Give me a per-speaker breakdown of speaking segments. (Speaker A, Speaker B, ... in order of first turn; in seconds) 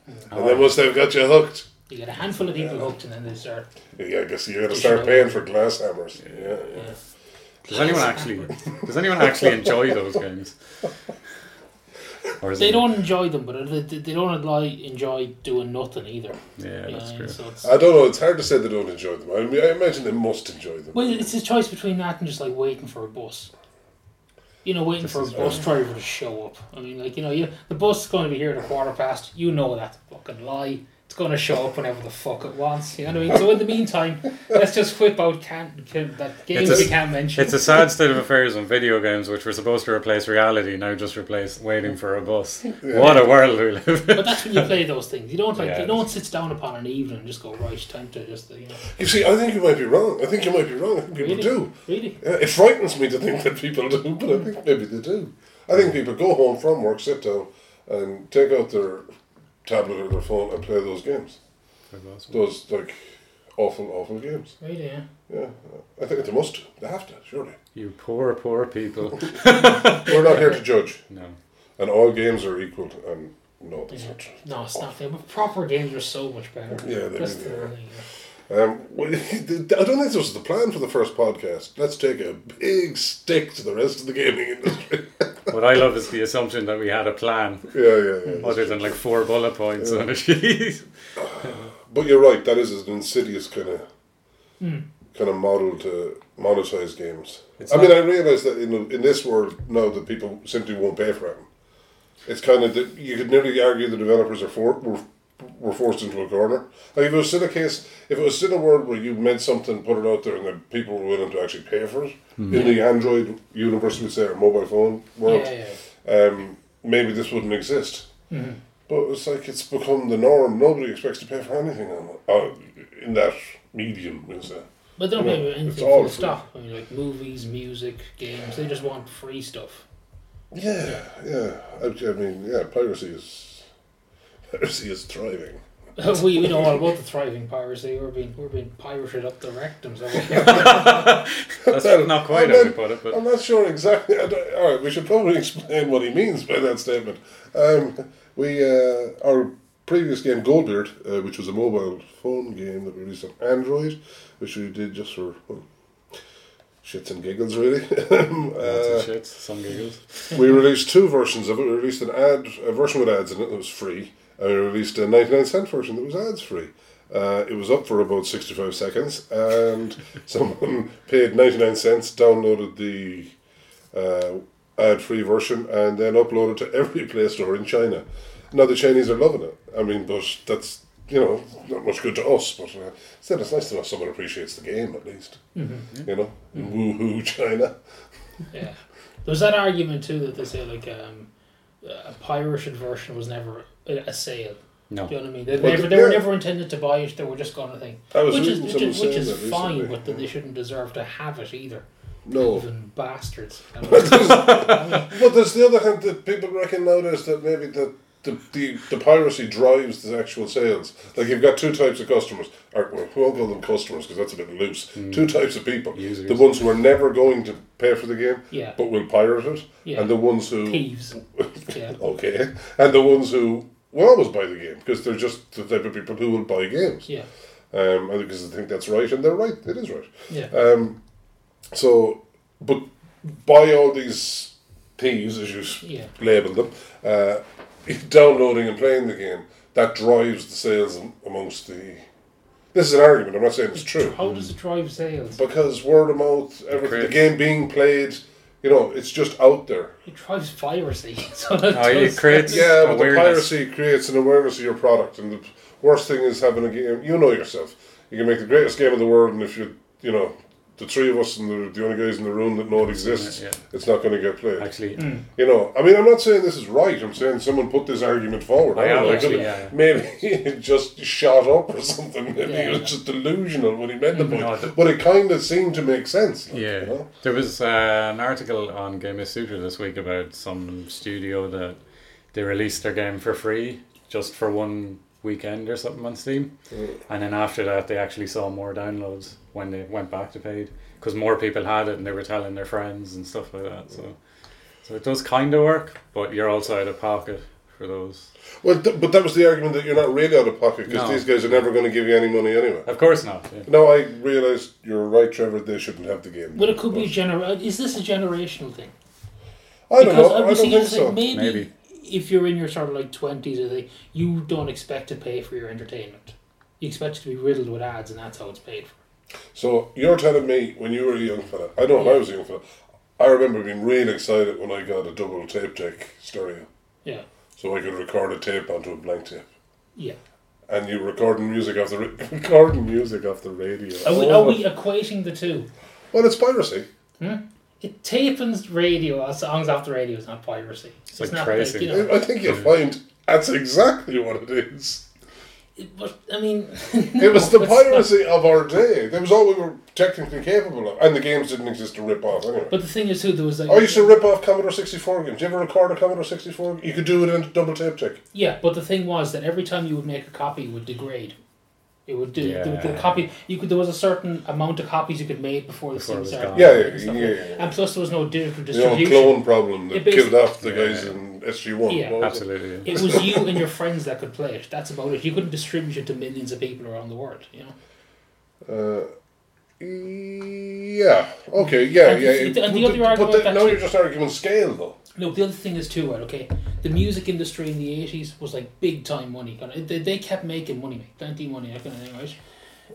Speaker A: 0.3-0.8, 6.3-6.6, 7.7-10.6, 12.4-12.9, 16.6-17.4, 25.1-25.6, 36.5-44.6, 45.5-46.0, 61.9-62.4, 67.8-71.4, 85.5-87.8, 88.4-90.8, 97.6-98.0, 112.4-112.8, 140.3-143.2, 158.6-160.3, 204.3-205.0, 215.0-215.3, 215.9-216.5, 246.7-247.2, 251.7-253.5, 262.9-263.6, 264.6-265.1, 268.8-269.8, 274.2-274.7, 276.5-281.8, 282.3-286.5, 287.1-294.2, 294.8-298.3, 300.9-301.4, 302.9-303.7, 311.3-311.7, 341.2-342.6, 362.4-363.2, 366.0-366.9, 370.6-371.1, 372.2-373.0
Speaker B: 0.3-1.7, 4.0-6.8, 7.7-8.1, 17.6-21.2, 25.4-25.6, 42.8-43.2, 48.9-59.1, 59.6-61.4, 62.3-63.0, 63.6-64.5, 65.3-67.6, 69.5-71.0, 71.8-74.3, 76.8-77.7, 78.5-85.3, 87.7-89.0, 91.2-93.8, 95.1-101.5, 102.3-115.5, 116.0-118.1, 118.9-126.4, 130.5-133.7, 134.5-135.6, 136.4-136.7, 141.7-155.7, 156.8-159.1, 160.3-173.3, 173.9-185.4, 186.1-187.8, 195.6-196.2, 198.1-200.1, 202.3-202.7, 203.9-227.1, 227.7-231.0, 231.7-242.1, 242.7-244.2, 245.3-249.9, 252.5-264.7, 265.3-277.1, 298.6-302.9, 303.7-307.1, 309.9-311.2, 319.5-322.6, 323.2-326.7, 327.6-329.5, 330.7-334.7, 336.1-336.9, 341.9-345.1, 347.2-352.7, 353.7-358.2, 366.5-367.7, 368.7-373.4, 378.7-379.1, 379.8-385.0
Speaker C: 1.9-3.7, 4.7-5.4, 12.6-17.7, 20.9-23.5, 24.6-37.6, 44.1-48.8, 51.2-52.2, 64.6-65.0, 70.1-70.4, 73.9-78.0, 94.6-94.8, 112.5-112.8, 115.2-115.8, 118.3-118.6, 125.0-129.8, 136.0-141.1, 185.6-185.9, 188.5-191.3, 191.8-205.1, 218.5-218.8, 219.8-220.1, 220.7-222.0, 235.8-236.1, 243.8-245.4, 250.1-252.7, 265.0-265.2, 268.9-269.5, 272.5-272.9, 306.6-308.9, 310.0-319.0, 321.9-322.2, 334.0-335.7, 337.2-342.2, 345.8-348.1, 352.7-354.2, 358.3-361.4, 362.1-370.4, 371.9-372.3, 372.9-377.8, 381.6-383.8, 385.2-392.4